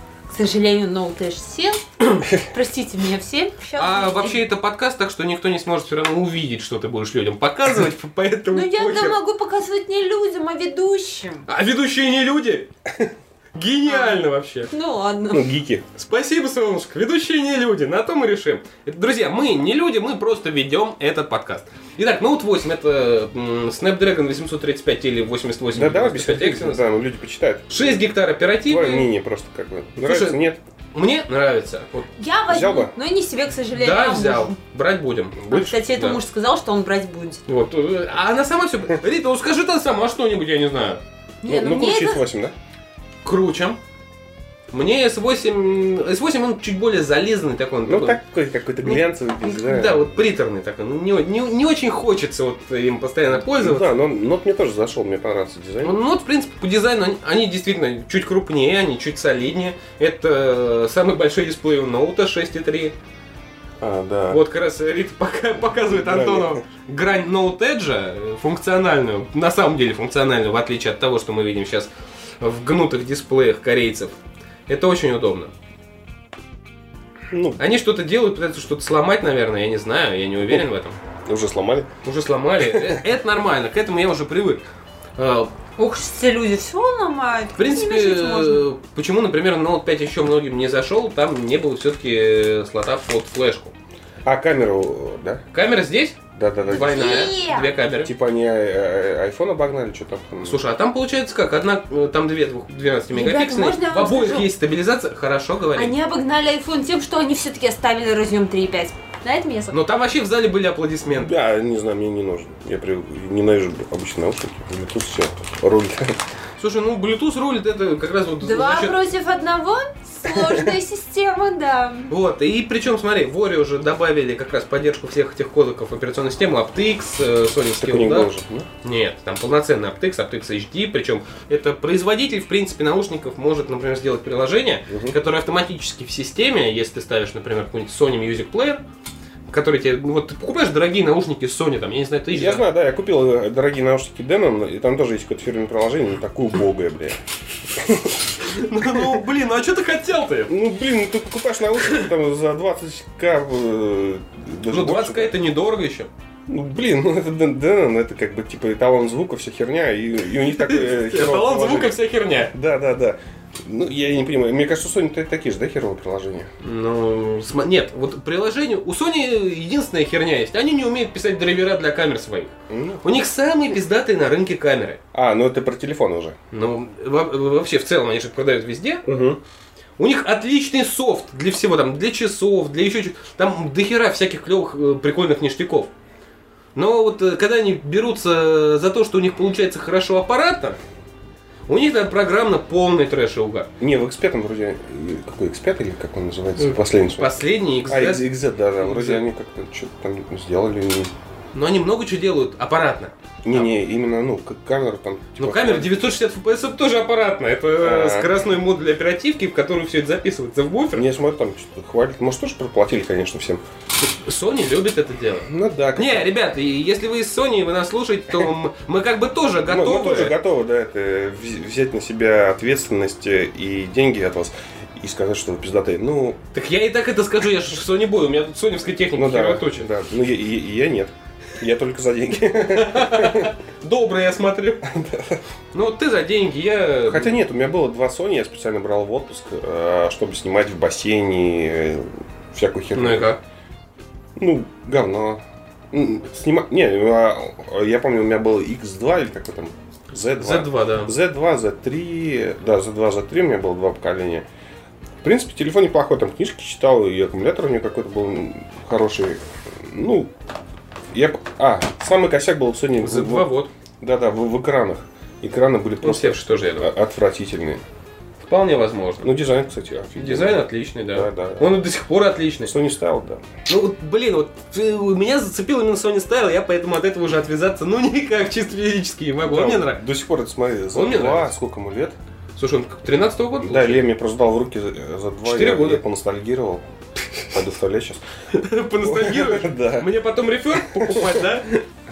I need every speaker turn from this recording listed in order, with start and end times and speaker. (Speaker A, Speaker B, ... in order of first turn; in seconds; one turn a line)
Speaker A: 0.3-4.4
Speaker B: 3.8-9.2
Speaker A: 8.5-11.5
Speaker B: 11.5-12.7
Speaker B: 13.6-14.7
Speaker A: 13.9-15.5
Speaker C: 15.3-15.8
Speaker B: 15.9-26.9
Speaker C: 25.7-28.0
Speaker B: 27.7-29.1
Speaker C: 28.6-30.6
Speaker B: 30.0-30.4
Speaker B: 30.9-32.1
Speaker A: 32.2-34.6
Speaker C: 32.5-32.9
Speaker B: 33.7-36.2
Speaker A: 35.5-37.4
Speaker B: 37.5-41.0
Speaker A: 41.4-42.2
Speaker C: 41.5-42.5
Speaker B: 43.2-43.8
Speaker B: 44.7-48.2
Speaker C: 47.9-50.2
Speaker B: 48.8-53.9
Speaker C: 53.3-56.0
Speaker B: 55.8-63.0
Speaker C: 63.8-64.4
Speaker B: 64.3-74.2
Speaker C: 65.9-66.6
Speaker B: 74.7-75.5
Speaker C: 77.3-77.6
Speaker B: 77.6-81.0
Speaker C: 81.3-81.9
Speaker B: 82.0-84.6
Speaker C: 82.6-83.0
Speaker B: 85.2-85.5
Speaker A: 85.8-88.7
Speaker B: 87.6-93.7
Speaker C: 94.2-95.4
Speaker B: 95.5-98.1
Speaker C: 96.3-97.4
Speaker A: 96.7-97.7
Speaker C: 98.0-100.6
Speaker B: 100.4-105.9
Speaker A: 103.1-104.5
Speaker A: 105.8-109.8
Speaker B: 109.7-111.3
Speaker C: 111.1-116.2
Speaker B: 116.6-119.0
Speaker A: 118.4-122.1
Speaker C: 120.3-120.8
Speaker B: 122.1-128.3
Speaker C: 127.8-128.7
Speaker B: 128.8-138.8
Speaker C: 134.9-135.2
Speaker B: 139.5-142.7
Speaker C: 142.3-147.2
Speaker C: 147.7-148.2
Speaker B: 148.4-150.5
Speaker C: 148.8-149.2
Speaker C: 150.5-155.3
Speaker B: 151.8-152.1
Speaker B: 154.7-156.1
Speaker C: 156.5-162.0
Speaker B: 160.5-162.5
Speaker C: 162.5-166.5
Speaker B: 166.6-175.0
Speaker C: 172.7-173.2
Speaker C: 175.1-176.4
Speaker B: 176.5-179.0
Speaker C: 179.1-179.4
Speaker B: 180.0-185.9
Speaker B: 186.8-190.8
Speaker B: 191.7-193.7
Speaker C: 193.8-201.1
Speaker B: 196.6-199.2
Speaker B: 201.5-203.7
Speaker C: 203.4-205.9
Speaker B: 205.4-211.1
Speaker C: 207.8-208.3
Speaker C: 210.9-213.6
Speaker B: 214.0-220.3
Speaker C: 215.5-216.3
Speaker C: 219.7-226.4
Speaker B: 226.5-229.9
Speaker C: 229.2-233.5
Speaker B: 232.7-234.9
Speaker C: 234.8-235.4
Speaker B: 235.7-237.4
Speaker C: 237.1-243.3
Speaker B: 242.9-243.4
Speaker C: 244.4-254.5
Speaker B: 250.4-251.1
Speaker C: 255.2-260.3
Speaker C: 261.1-263.5
Speaker B: 263.0-263.7
Speaker C: 264.0-267.8
Speaker B: 266.0-266.9
Speaker B: 268.4-269.3
Speaker C: 269.2-271.7
Speaker B: 270.2-272.7
Speaker C: 272.7-273.4
Speaker B: 273.7-280.0
Speaker C: 279.4-282.2
Speaker B: 280.9-281.6
Speaker B: 282.6-284.1
Speaker C: 283.6-288.2
Speaker B: 285.4-286.0
Speaker B: 288.5-291.8
Speaker C: 289.0-290.1
Speaker C: 290.7-291.8